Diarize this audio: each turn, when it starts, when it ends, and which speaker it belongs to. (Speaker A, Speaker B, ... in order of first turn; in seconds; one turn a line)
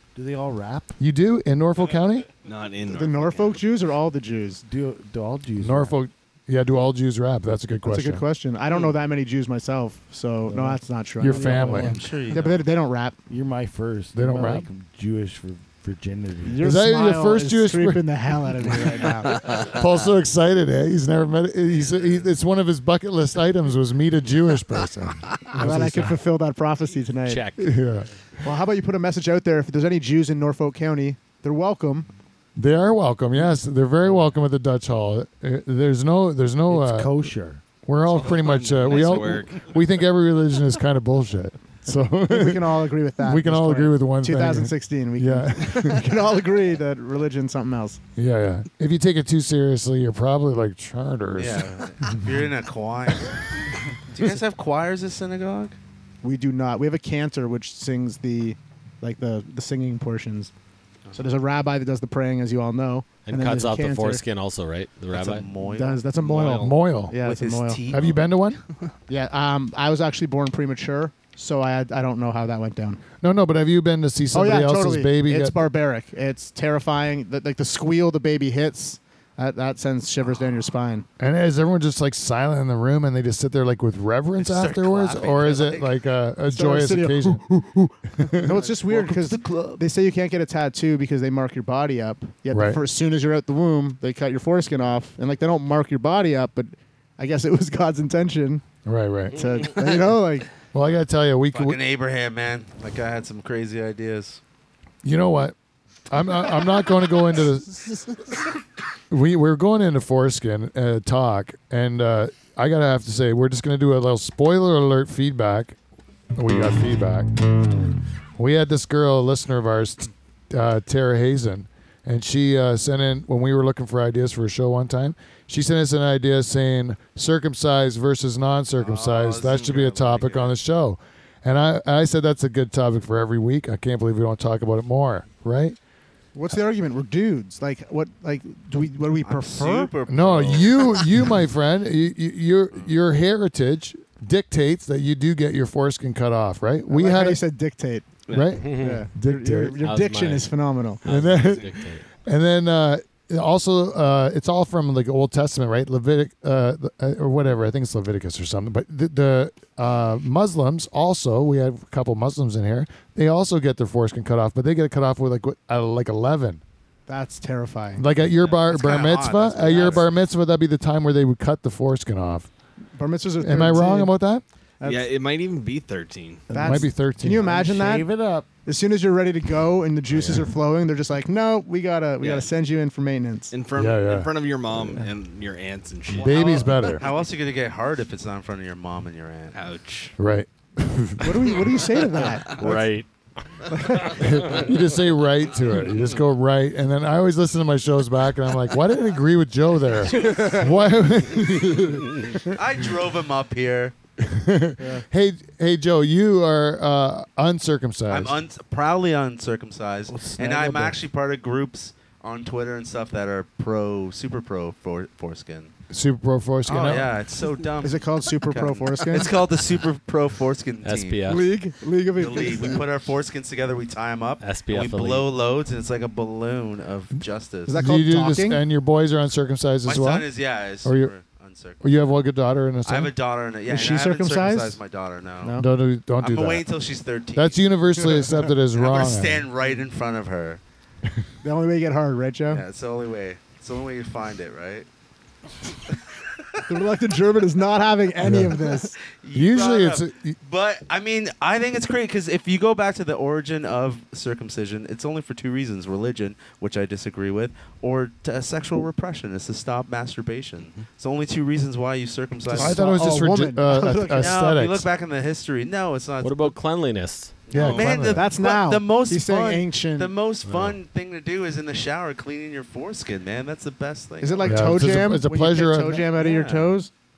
Speaker A: 0.1-0.9
Speaker B: 1.0-2.3
Speaker C: 2.4-3.5
Speaker D: 2.9-4.6
Speaker A: 4.6-6.0
Speaker B: 5.6-8.2
Speaker D: 7.8-13.2
Speaker A: 10.5-12.3
Speaker B: 11.2-11.9
Speaker E: 11.8-12.7
Speaker A: 13.3-16.6
Speaker B: 14.1-14.7
Speaker D: 16.4-19.5
Speaker B: 16.6-18.1
Speaker B: 19.6-26.2
Speaker D: 25.5-27.5
Speaker F: 27.3-27.6
Speaker B: 27.6-28.1
Speaker D: 28.4-32.1
Speaker B: 32.5-37.1
Speaker A: 36.7-37.6
Speaker B: 37.9-46.1
Speaker C: 38.0-39.8
Speaker D: 42.3-48.0
Speaker B: 48.1-51.7
Speaker E: 51.3-53.4
Speaker E: 54.1-55.8
Speaker D: 56.2-60.5
Speaker D: 61.1-64.2
Speaker F: 63.2-65.5
Speaker E: 65.1-66.0
Speaker D: 65.6-67.9
Speaker C: 66.2-66.8
Speaker B: 66.5-67.2
Speaker E: 67.2-68.2
Speaker B: 67.9-68.6
Speaker D: 69.1-73.0
Speaker B: 73.2-75.5
Speaker D: 74.3-81.0
Speaker B: 81.2-87.5
Speaker E: 84.4-85.9
Speaker D: 86.5-98.6
Speaker B: 88.1-88.5
Speaker E: 88.4-89.8
Speaker B: 92.5-92.8
Speaker B: 98.8-99.4
Speaker D: 99.3-100.5
Speaker B: 100.7-101.8
Speaker E: 101.5-104.4
Speaker B: 105.0-105.5
Speaker B: 106.1-108.1
Speaker B: 109.1-115.8
Speaker B: 116.3-117.4
Speaker B: 118.4-135.8
Speaker E: 128.8-130.5
Speaker C: 129.5-129.8
Speaker D: 136.3-139.9
Speaker E: 139.2-141.1
Speaker B: 140.1-147.4
Speaker D: 146.9-151.0
Speaker C: 148.3-148.7
Speaker B: 148.3-149.8
Speaker F: 148.5-149.1
Speaker F: 149.8-152.0
Speaker B: 151.0-166.6
Speaker C: 151.2-151.8
Speaker D: 167.1-168.0
Speaker B: 167.9-172.5
Speaker E: 168.3-170.1
Speaker D: 173.0-174.1
Speaker B: 173.4-174.4
Speaker D: 174.8-175.1
Speaker C: 174.8-176.4
Speaker D: 176.5-178.1
Speaker B: 176.6-177.5
Speaker A: 177.4-178.5
Speaker D: 178.6-183.5
Speaker C: 182.2-182.4
Speaker C: 183.5-186.6
Speaker B: 183.7-184.3
Speaker B: 186.1-187.0
Speaker E: 186.1-189.6
Speaker C: 189.5-190.1
Speaker B: 190.2-191.4
Speaker D: 191.2-192.9
Speaker F: 192.5-193.1
Speaker D: 193.7-194.2
Speaker B: 194.1-202.3
Speaker D: 200.2-200.7
Speaker E: 200.3-200.5
Speaker E: 202.5-203.9
Speaker B: 204.2-208.3
Speaker D: 204.8-205.0
Speaker E: 208.1-215.7
Speaker A: 210.4-210.8
Speaker D: 210.6-210.9
Speaker B: 215.9-217.1
Speaker E: 216.7-221.3
Speaker D: 217.8-219.4
Speaker F: 220.8-221.5
Speaker D: 221.2-223.0
Speaker E: 222.2-227.8
Speaker F: 224.4-225.3
Speaker D: 227.7-228.6
Speaker B: 227.8-230.3
Speaker E: 229.8-231.8
Speaker B: 230.8-231.1
Speaker B: 231.8-233.1
Speaker E: 232.8-235.6
Speaker D: 233.7-234.8
Speaker D: 235.4-235.7
Speaker B: 235.6-236.7
Speaker E: 236.2-237.6
Speaker B: 237.3-239.5
Speaker E: 238.7-240.6
Speaker D: 241.4-242.6
Speaker E: 242.5-244.9
Speaker E: 246.1-246.6
Speaker D: 246.7-248.9
Speaker B: 248.2-248.5
Speaker E: 249.1-262.8
Speaker B: 249.3-250.3
Speaker D: 262.5-264.4
Speaker B: 262.5-264.9
Speaker E: 264.2-266.6
Speaker F: 266.2-267.4
Speaker E: 267.5-274.8
Speaker B: 267.5-268.2
Speaker C: 267.5-268.1
Speaker D: 268.1-270.1
Speaker D: 274.2-276.9
Speaker B: 274.5-276.1
Speaker E: 276.2-276.7